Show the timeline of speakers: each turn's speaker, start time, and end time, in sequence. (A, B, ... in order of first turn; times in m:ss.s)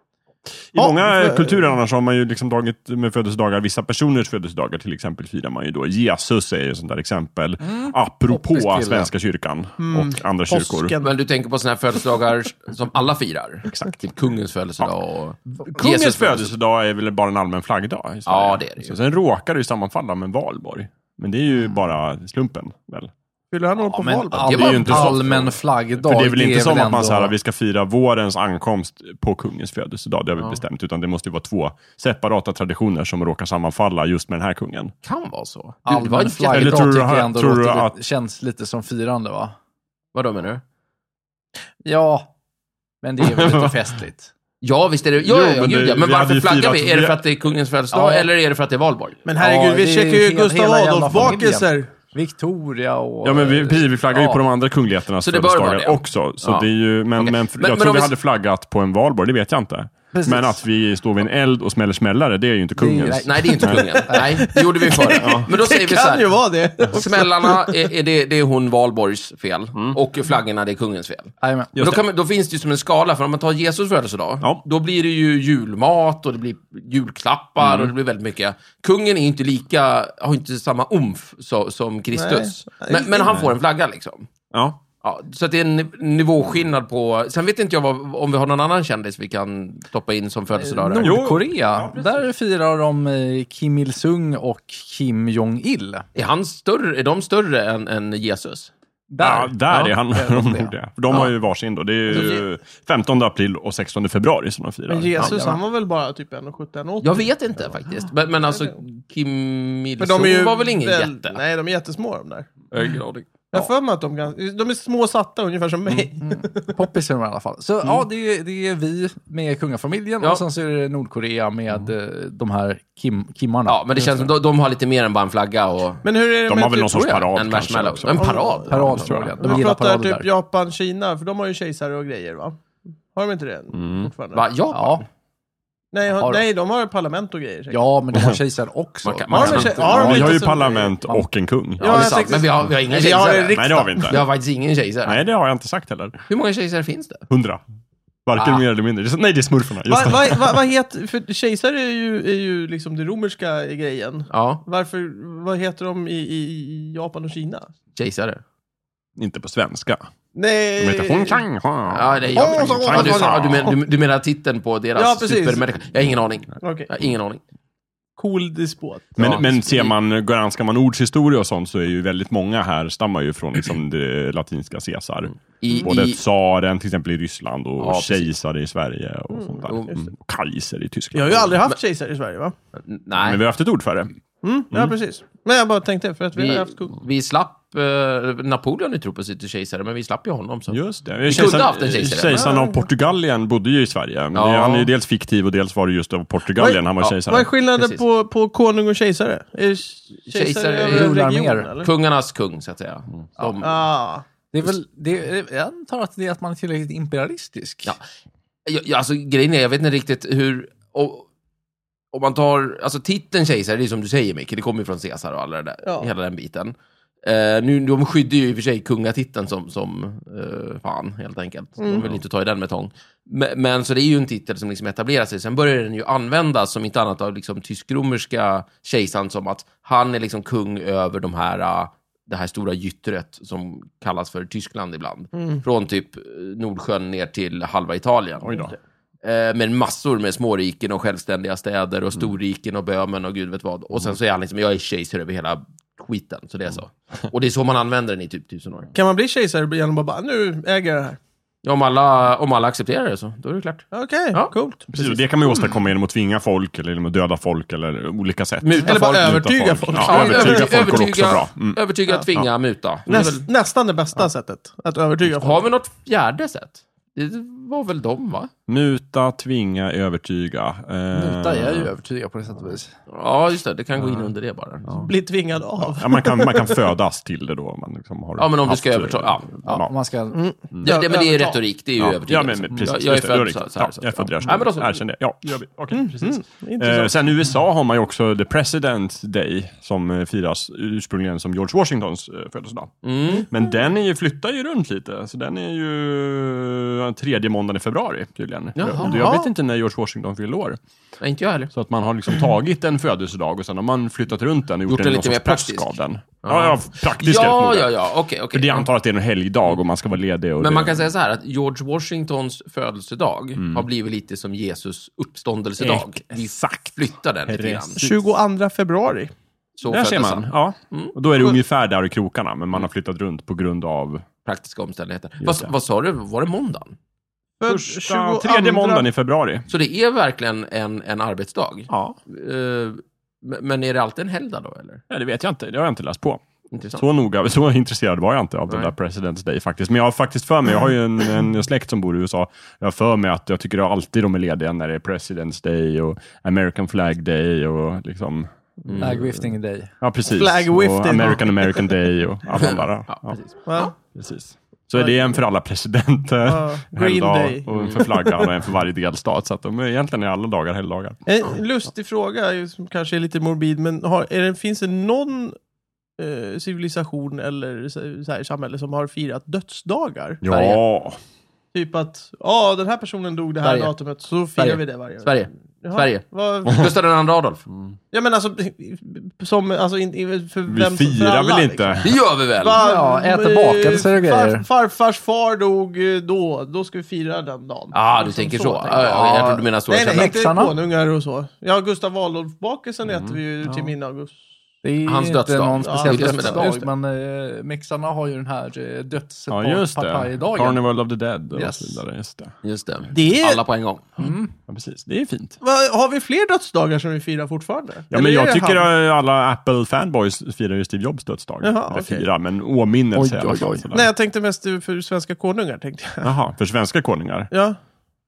0:00.7-0:11.0 A
0:00.8-0:01.7 B
0:07.6-0:09.1 C
0:09.8-0:11.1 B
0:11.0-0:16.5 D
0:13.7-0:14.0 A
0:15.6-0:23.1 A
0:18.3-0:19.0 D
0:23.5-0:24.7 B
0:23.9-0:27.3 C
0:24.4-0:25.3 D
0:24.5-0:34.9 A
0:35.0-0:36.9 D
0:35.9-0:39.6 C
0:36.5-0:38.0 A
0:40.1-0:40.6 D
0:41.8-0:42.3 C
0:43.0-0:44.3 C
0:43.2-0:43.8 A
0:44.6-0:49.2 D
0:45.2-0:47.2 A
0:47.9-0:48.3 C
0:49.3-0:51.9 B
0:49.4-0:54.4 C
0:53.2-1:03.9 A
0:55.2-0:58.1 D
1:00.1-1:00.6 C
1:02.8-1:04.4 C
1:03.2-1:24.3 D
1:04.1-1:07.8 B
1:05.2-1:05.5 A
1:11.4-1:11.7 C
1:11.8-1:12.0 A
1:17.6-1:17.9 A
1:22.1-1:23.5 B
1:24.5-1:24.8 A
1:25.0-1:31.2 D
1:30.6-1:36.1 C
1:31.0-1:32.2 A
1:36.2-1:38.7 D
1:39.1-1:40.7 C
1:39.2-1:45.2 A
1:42.1-1:42.4 B
1:44.9-1:47.2 B
1:45.2-1:45.6 C
1:47.0-1:51.4 D
1:50.0-1:52.5 B
1:52.7-1:53.3 D
1:53.5-1:56.8 B
1:56.2-2:03.8 C
2:03.7-2:06.0 D
2:06.0-2:07.3 B
2:06.5-2:09.6 A
2:07.0-2:09.3 D
2:08.1-2:12.6 B
2:08.7-2:10.3 C
2:13.1-2:14.4 B
2:13.7-2:14.1 A
2:14.3-2:15.0 D
2:14.7-2:15.0 C
2:15.9-2:17.8 B
2:16.2-2:16.4 C
2:17.7-2:20.6 C
2:19.0-2:20.2 D
2:19.3-2:21.0 B
2:19.4-2:22.1 A
2:21.8-2:24.2 B
2:21.8-2:25.2 D
2:23.6-2:24.2 A
2:25.0-2:26.2 A
2:26.3-2:27.2 D
2:27.3-2:27.6 A
2:28.3-2:30.6 A
2:28.4-2:28.6 D
2:29.9-2:37.7 B
2:34.3-2:34.6 D
2:38.0-2:38.4 D
2:39.2-2:40.0 A
2:40.4-2:41.4 B
2:40.8-2:43.7 A
2:41.9-2:47.4 D
2:42.3-2:43.8 B
2:45.0-2:45.7 B
2:46.6-2:46.9 B
2:48.2-2:49.4 B
2:49.2-3:01.6 A
2:49.2-2:49.9 D
2:55.6-2:56.2 D
2:57.8-2:58.3 D
2:59.3-2:59.6 B
2:59.7-3:00.0 D
3:01.1-3:02.6 B
3:02.9-3:03.4 D
3:03.2-3:04.1 A
3:04.4-3:06.9 B
3:06.4-3:12.5 D
3:10.7-3:17.5 A
3:12.3-3:12.9 B
3:14.3-3:14.9 D
3:16.6-3:21.9 B
3:17.7-3:18.0 D
3:20.3-3:21.2 D
3:20.8-3:21.7 C
3:21.8-3:23.8 D
3:23.6-3:24.2 B
3:24.5-3:28.0 C
3:28.7-3:31.3 D
3:32.1-3:58.6 D
3:41.8-3:42.1 B
3:55.4-3:55.6 B
3:58.4-3:58.7 A
3:59.2-4:08.9 D
4:08.9-4:11.2 B
4:11.6-4:14.5 D
4:13.9-4:15.2 B
4:14.9-4:21.8 A
4:18.6-4:23.5 D
4:18.8-4:20.8 B
4:23.1-4:25.6 B
4:25.3-4:28.5 D
4:28.7-4:31.9 A
4:31.1-4:32.9 C
4:33.1-4:35.0 D
4:35.0-4:36.8 B
4:35.8-4:39.9 A
4:38.4-4:39.6 D
4:39.6-4:40.4 C
4:40.3-4:41.6 B
4:40.8-4:45.0 D
4:42.0-5:00.8 A
4:45.9-4:47.2 B
4:53.0-4:53.5 D
4:58.8-4:59.2 D
4:59.0-4:59.5 B
5:01.2-5:01.7 D
5:01.7-5:07.9 A
5:04.9-5:08.9 D
5:08.5-5:11.0 A
5:10.6-5:18.0 D
5:13.6-5:13.9 A
5:15.8-5:18.2 A
5:18.0-5:19.3 B
5:19.8-5:21.2 D
5:19.9-5:24.3 A
5:24.4-5:27.0 D
5:25.4-5:25.7 A
5:27.6-5:29.1 B
5:27.7-5:29.7 A
5:29.7-5:35.0 D
5:31.9-5:32.2 A
5:35.1-5:49.2 A
5:36.7-5:37.0 D
5:48.9-5:49.2 D
5:49.0-5:49.9 C
5:50.0-5:53.4 A
5:50.3-5:51.9 B
5:52.6-5:53.9 D
5:53.7-5:53.9 B
5:54.0-6:01.2 A
5:55.0-5:55.2 B
5:56.5-5:58.5 B
6:01.3-6:05.6 B
6:06.2-6:10.4 B
6:10.4-6:11.2 A
6:10.5-6:10.8 D
6:11.7-6:16.9 B
6:13.6-6:13.9 D
6:14.6-6:17.7 D
6:18.1-6:22.0 B
6:20.7-6:22.2 A
6:22.0-6:22.8 D
6:22.6-6:34.4 B
6:22.8-6:24.7 C
6:27.9-6:30.4 D
6:29.0-6:30.8 C
6:33.1-6:33.4 A
6:34.8-6:40.8 C
6:35.0-6:36.8 D
6:35.8-6:36.9 B
6:39.5-6:42.5 A
6:41.5-6:42.0 C
6:42.6-6:44.2 D
6:43.1-6:43.6 B
6:44.2-6:44.5 C
6:44.7-6:45.6 A
6:45.6-6:48.9 B
6:48.1-6:54.1 A
6:51.6-6:52.3 B
6:53.2-6:53.9 C
6:53.9-6:56.3 B
6:56.2-6:57.5 A
6:57.5-6:57.8 B